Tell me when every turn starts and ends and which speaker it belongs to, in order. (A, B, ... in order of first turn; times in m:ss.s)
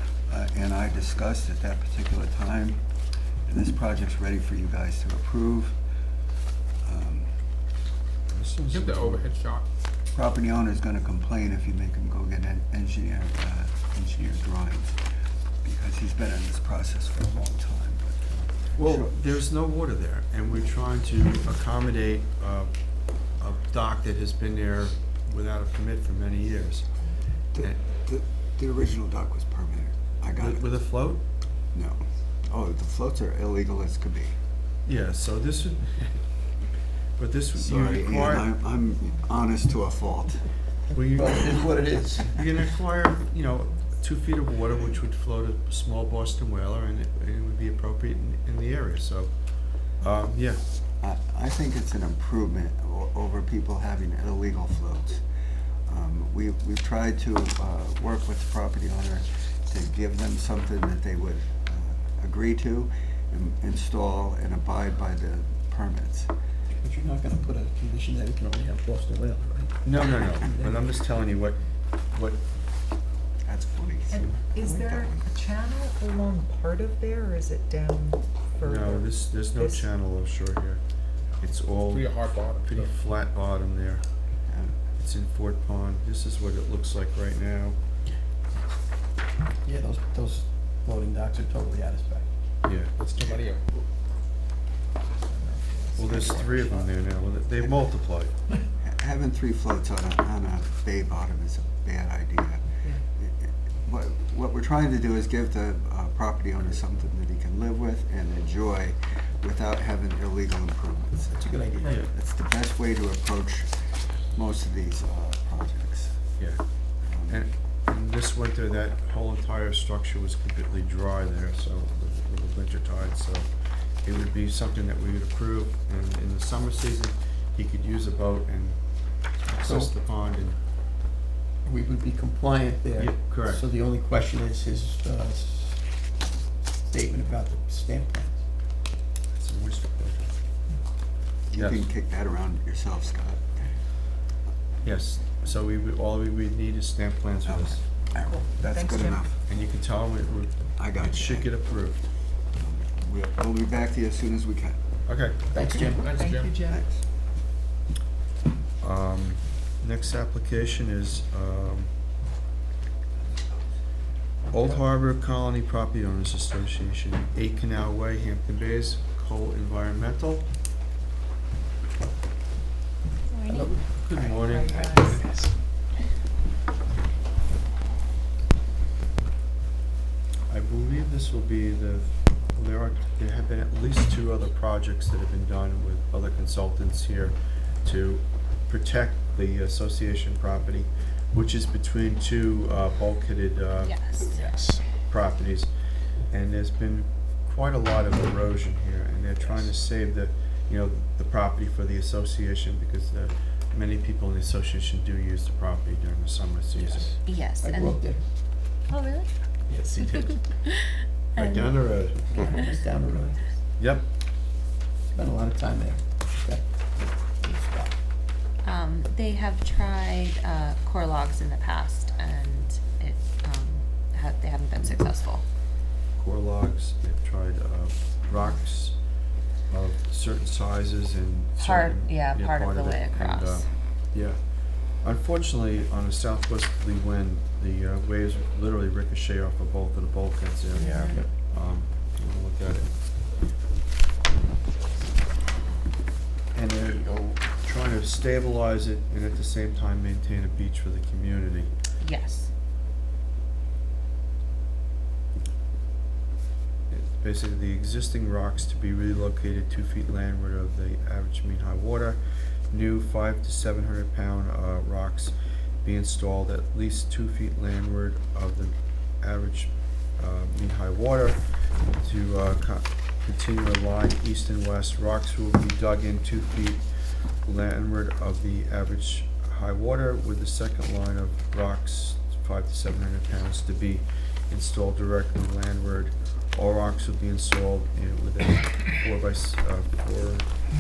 0:00.3-0:02.8 A
0:03.4-0:05.8 A
0:06.8-0:07.3 A
0:08.3-0:09.3 B
0:08.7-0:09.6 C
0:10.1-0:15.0 A
0:15.6-0:19.3 A
0:18.8-0:22.7 B
0:23.4-0:26.9 B
0:27.5-0:30.7 A
0:30.4-0:31.2 B
0:31.7-0:34.4 A
0:34.8-0:36.2 B
0:37.2-0:38.5 B
0:37.6-0:40.5 A
0:40.9-0:41.6 B
0:41.1-0:42.4 D
0:42.3-0:50.6 B
0:51.0-0:55.2 A
0:55.9-1:06.3 A
1:06.7-1:10.8 D
1:09.8-1:12.4 B
1:13.4-1:15.5 A
1:14.1-1:19.9 E
1:18.6-1:20.8 B
1:21.4-1:24.0 B
1:21.9-1:22.9 C
1:24.5-1:24.8 A
1:25.0-1:27.8 B
1:29.6-1:32.3 D
1:32.6-1:32.9 B
1:33.0-1:33.7 C
1:35.4-1:36.6 E
1:35.9-1:38.3 B
1:36.0-1:36.8 D
1:37.6-1:37.9 A
1:38.8-1:56.2 A
1:51.3-1:52.1 D
1:51.8-1:52.1 B
1:57.0-1:57.4 A
1:57.3-2:03.5 B
2:04.0-2:08.8 B
2:09.4-2:10.6 B
2:09.6-2:09.9 D
2:11.6-2:15.8 D
2:12.9-2:13.7 B
2:16.8-2:18.4 D
2:19.3-2:20.3 B
2:21.5-2:23.7 A
2:21.5-2:21.9 B
2:24.8-2:27.8 B
2:27.4-2:29.4 A
2:28.2-2:29.2 E
2:29.4-2:32.0 B
2:30.8-2:31.5 A
2:32.5-2:34.8 A
2:35.1-2:35.5 B
2:35.5-2:36.2 D
2:35.8-2:36.8 E
2:36.0-2:36.6 C
2:36.6-2:37.0 A
2:38.8-2:41.9 B
2:43.2-2:43.6 A
2:44.5-2:50.5 B
2:53.3-2:55.2 E
2:53.5-2:54.0 D
2:54.0-2:55.2 B
2:55.2-2:55.5 D
3:00.5-3:14.0 B
3:13.8-3:14.6 F
3:15.1-3:15.7 B
3:16.3-3:27.2 B
3:19.4-3:19.7 A
3:26.8-3:27.1 A
3:27.2-3:28.0 F
3:27.6-3:28.2 D
3:28.9-3:29.3 F
3:29.9-3:30.4 B
3:29.9-3:31.8 F
3:31.4-3:32.4 B
3:32.3-3:33.4 D
3:32.4-3:33.4 E
3:33.8-3:34.1 B
3:35.1-3:37.9 D
3:38.6-3:45.4 F
3:46.2-3:49.0 B
3:49.7-3:54.4 B
3:51.6-3:53.7 F
3:55.0-4:02.9 B
4:00.8-4:01.2 F
4:06.5-4:11.7 B
4:12.0-4:12.5 F
4:16.9-4:22.2 B
4:22.7-4:25.3 B
4:25.8-4:31.4 B
4:32.0-4:36.8 B
4:37.5-4:50.5 B